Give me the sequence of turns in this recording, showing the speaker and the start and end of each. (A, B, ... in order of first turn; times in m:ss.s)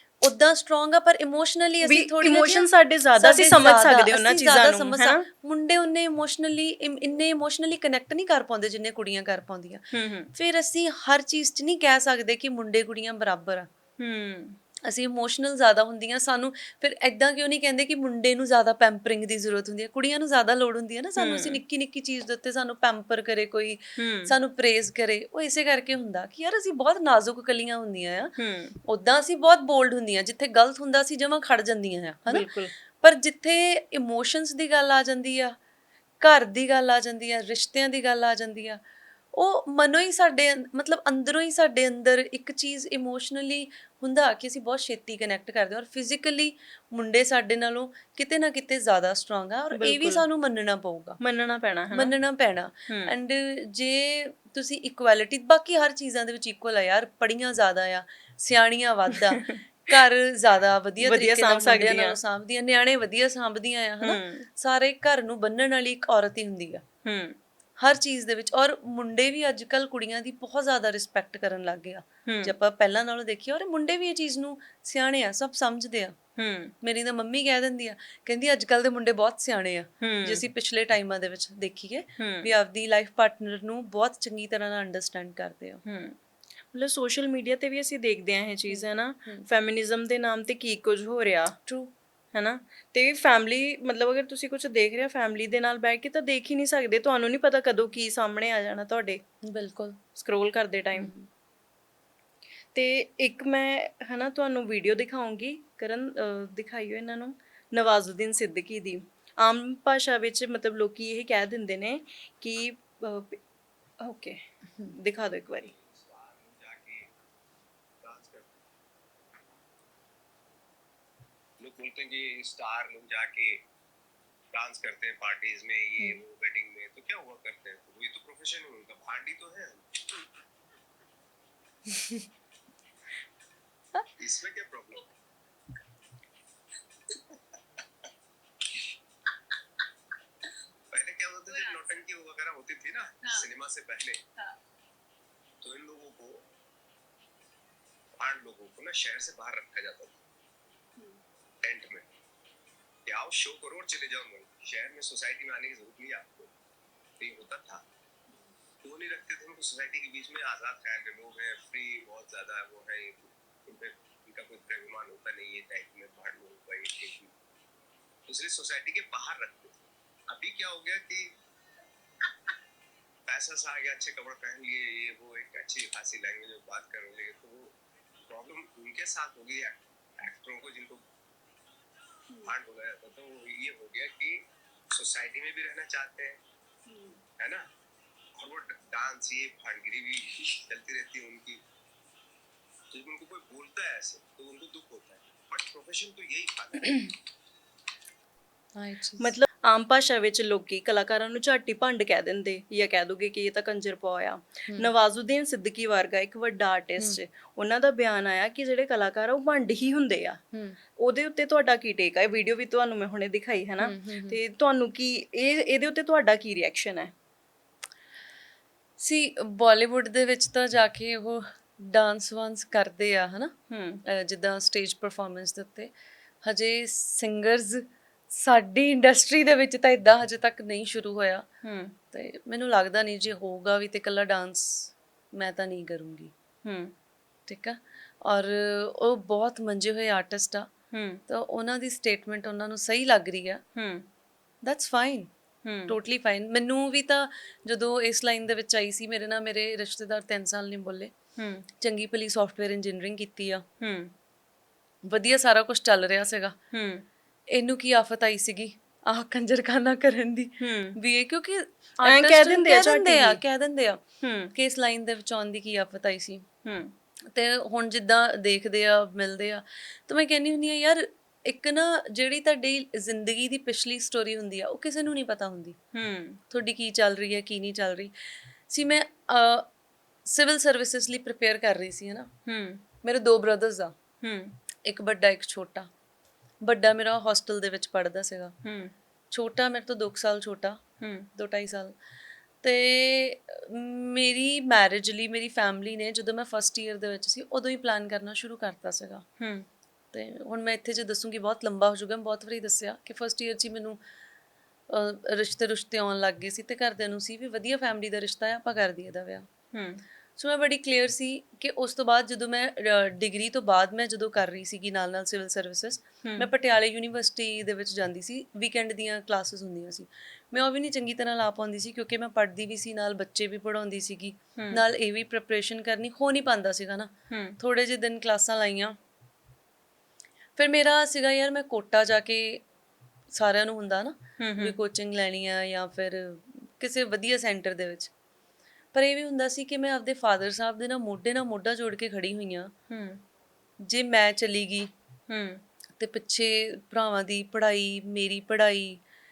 0:00.2-0:13.7 A
0:01.8-0:05.2 B
0:09.9-0:10.3 B
0:14.0-0:14.6 B
0:14.9-0:28.3 A
0:21.2-0:21.6 B
0:24.0-0:24.3 B
0:28.4-0:28.8 B
0:28.8-0:32.5 A
0:32.3-0:32.7 B
0:33.0-0:35.6 A
0:36.2-0:38.8 A
0:39.3-0:51.2 A
0:49.7-0:50.3 B
0:51.2-0:52.1 B
0:51.9-1:06.8 A
0:52.9-0:53.1 B
1:01.0-1:02.2 B
1:04.0-1:04.5 B
1:07.0-1:07.4 B
1:07.8-1:16.2 A
1:12.3-1:12.5 B
1:16.4-1:16.7 B
1:16.8-1:25.8 A
1:20.0-1:20.4 B
1:22.2-1:22.5 B
1:25.8-1:26.2 B
1:26.7-1:31.6 B
1:28.7-1:29.5 A
1:31.7-1:31.9 A
1:32.3-1:39.2 B
1:39.4-1:40.0 A
1:40.2-1:41.1 B
1:41.0-1:41.3 A
1:42.8-1:53.4 B
1:54.0-1:55.7 B
1:55.6-1:57.1 C
1:58.0-1:58.6 C
2:01.6-2:03.6 C
2:04.5-2:10.2 C
2:14.2-2:15.1 C
2:20.9-2:24.2 C
2:25.6-2:26.5 C
2:28.2-2:30.2 C
2:31.6-2:32.1 C
2:33.1-2:36.5 C
2:37.2-2:37.8 C
2:38.8-2:47.3 C
2:48.3-2:51.4 C
2:53.3-2:57.8 C
2:58.3-3:01.0 C
3:02.4-3:06.4 C
3:07.4-3:07.7 C
3:08.4-3:11.6 C
3:12.9-3:17.1 C
3:18.8-3:19.3 A
3:19.2-3:30.4 B
3:31.0-3:37.1 B
3:33.8-3:34.4 A
3:39.0-3:43.5 A
3:43.7-3:44.0 B
3:44.1-3:45.9 A
3:46.4-3:51.5 A
3:51.6-3:52.0 B
3:52.1-3:56.3 A
3:56.6-3:56.9 B
3:57.5-4:00.7 A
4:00.9-4:01.2 B
4:01.3-4:03.6 A
4:03.8-4:04.1 B
4:04.6-4:05.3 A
4:05.6-4:06.0 B
4:05.9-4:11.1 A
4:11.4-4:11.7 B
4:11.8-4:13.6 A
4:13.8-4:14.1 B
4:15.0-4:16.6 A
4:16.7-4:17.0 B
4:17.5-4:24.0 A
4:20.6-4:21.0 B
4:22.0-4:23.4 B
4:24.2-4:24.5 B
4:24.6-4:26.5 A
4:26.6-4:26.9 B
4:27.3-4:35.8 A
4:35.9-4:36.4 B
4:36.5-4:39.7 A
4:40.3-4:42.3 A
4:42.5-4:42.8 B
4:43.0-4:44.0 A
4:44.2-4:44.6 B
4:44.8-4:45.9 A
4:46.6-4:48.6 A
4:48.6-4:48.9 B
4:49.3-4:50.8 A
4:51.0-4:51.3 B
4:51.4-4:52.0 A
4:52.6-4:59.2 A
4:59.4-4:59.7 B
5:00.1-5:04.0 A
5:04.9-5:09.5 A
5:09.7-5:10.0 B
5:10.4-5:29.0 A
5:16.2-5:16.5 B
5:24.6-5:24.8 B
5:27.3-5:27.6 B
5:30.6-5:32.6 A
5:33.3-5:38.1 A
5:34.4-5:34.8 B
5:38.9-5:42.7 A
5:42.9-5:43.2 B
5:43.8-5:44.9 A
5:45.3-5:45.6 B
5:46.0-5:49.0 A